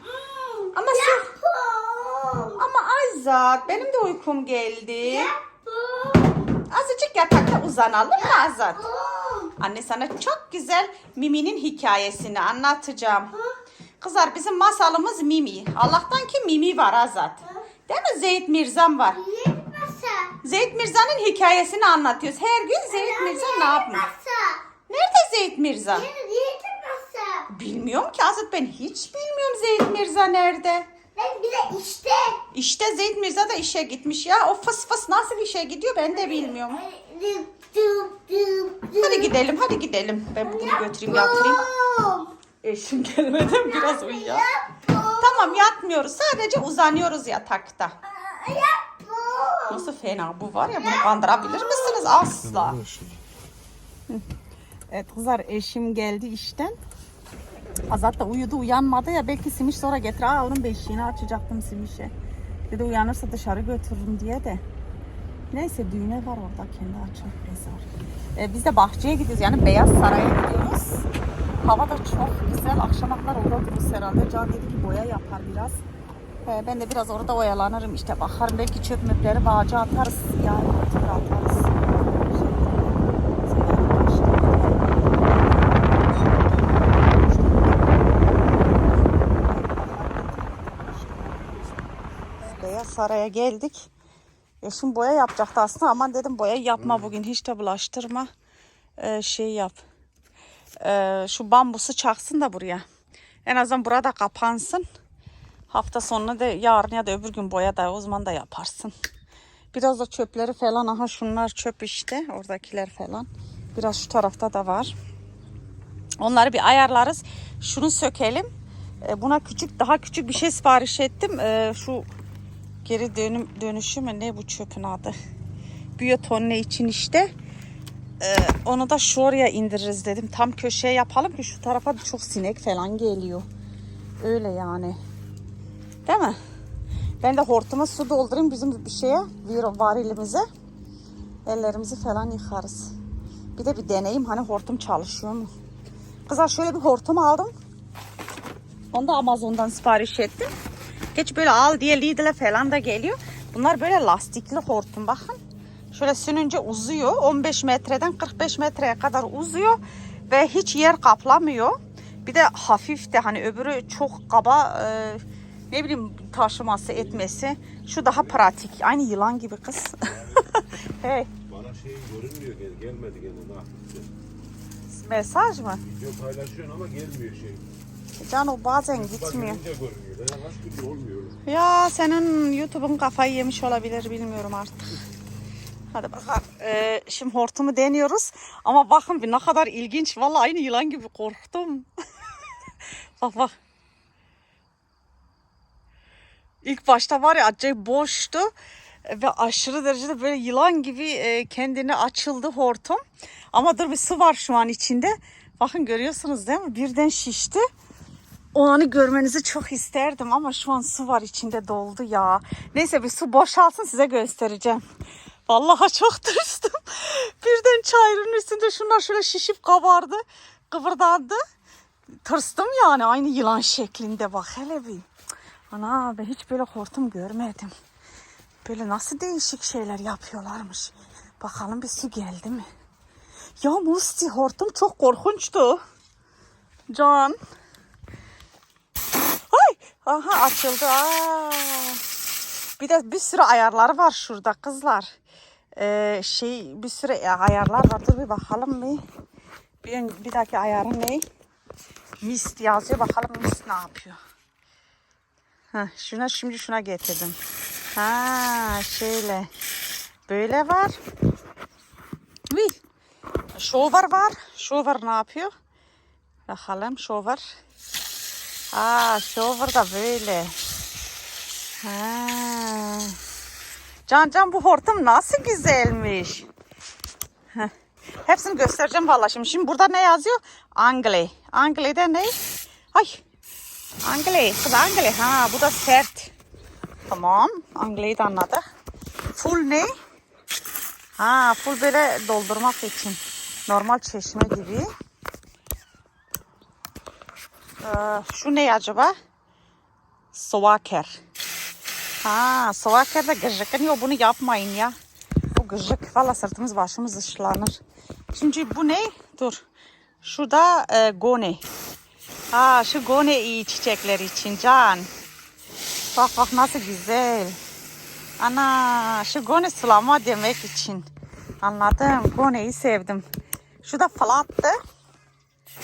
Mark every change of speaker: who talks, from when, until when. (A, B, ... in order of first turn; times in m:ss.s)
0:00.3-0:02.6 A
0:00.7-0:01.3 B
0:02.6-0:05.3 B
0:05.0-0:06.4 A
0:06.7-0:08.8 B
0:08.2-0:09.5 A
0:09.6-0:13.3 B
0:14.0-0:19.2 B
0:19.2-0:20.3 A
0:20.4-0:24.0 B
0:22.9-0:24.6 A
0:24.9-0:26.1 B
0:25.9-0:27.5 A
0:27.5-0:30.9 B
0:31.2-0:32.4 A
0:32.5-0:36.8 B
0:36.1-0:39.3 A
0:39.0-0:41.6 B
0:40.4-0:42.3 A
0:42.6-0:44.5 B
0:43.6-0:45.7 A
0:45.2-0:48.0 B
0:48.1-0:49.8 A
0:49.7-0:52.8 B
0:50.8-0:52.1 A
0:52.4-0:53.2 C
0:54.9-0:56.8 B
0:57.9-1:02.1 B
1:02.7-1:04.6 B
1:05.5-1:07.8 B
1:08.4-1:11.0 B
1:11.6-1:15.8 B
1:16.4-1:25.9 B
1:27.0-1:31.5 B
1:32.4-1:33.9 B
1:34.6-1:38.3 B
1:36.8-1:37.1 C
1:39.0-1:39.8 B
1:40.8-1:42.8 B
1:43.5-1:44.9 B
1:45.7-1:48.9 B
1:49.7-1:55.0 B
1:56.2-1:58.5 B
1:59.0-2:02.1 B
2:02.8-2:05.2 B
2:06.0-2:07.3 B
2:08.2-2:13.5 B
2:14.2-2:15.0 B
2:16.1-2:16.4 B
2:17.2-2:20.5 B
2:21.5-2:22.9 B
2:23.6-2:25.5 B
2:26.3-2:27.5 B
2:28.9-2:30.5 B
2:31.2-2:35.4 B
2:35.9-2:39.8 B
2:40.3-2:41.8 B
2:42.3-2:50.0 B
2:48.0-2:48.5 C
2:50.5-2:51.3 B
2:51.5-2:54.1 C
2:54.9-2:55.8 B
2:55.7-2:57.6 C
2:58.2-2:59.6 B
2:58.9-3:01.4 C
3:01.5-3:05.0 B
3:05.9-3:11.9 B
3:13.2-3:13.5 B
3:16.6-3:18.5 B
3:19.1-3:27.6 B
3:28.5-3:34.8 B
3:35.5-3:41.4 B
3:42.2-3:45.0 B
3:45.7-3:47.7 B
3:48.6-3:52.7 B
3:53.6-3:55.8 B
3:56.9-3:57.4 B
3:59.5-4:02.0 B
4:02.8-4:05.1 B
4:05.8-4:09.0 B
4:09.8-4:11.2 B
4:12.2-4:14.2 B
4:15.7-4:17.4 B
4:18.0-4:19.5 B
4:20.3-4:21.0 B
4:22.5-4:22.8 B
4:23.6-4:25.5 B
4:26.5-4:27.4 B
4:28.7-4:30.5 B
4:31.8-4:33.2 B
4:34.1-4:36.5 B
4:38.2-4:42.4 B
4:42.9-4:43.2 B
4:44.0-4:46.3 B
4:47.1-4:48.6 B
4:49.4-4:49.9 B
4:51.2-4:54.9 B
4:57.8-4:59.1 B
5:00.3-5:01.2 B
5:02.2-5:05.0 B
5:05.5-5:07.8 B
5:08.3-5:09.6 B
5:10.2-5:11.6 B
5:12.5-5:15.1 B
5:16.1-5:17.6 B
5:18.4-5:21.1 B
5:21.6-5:23.2 B
5:23.8-5:24.8 B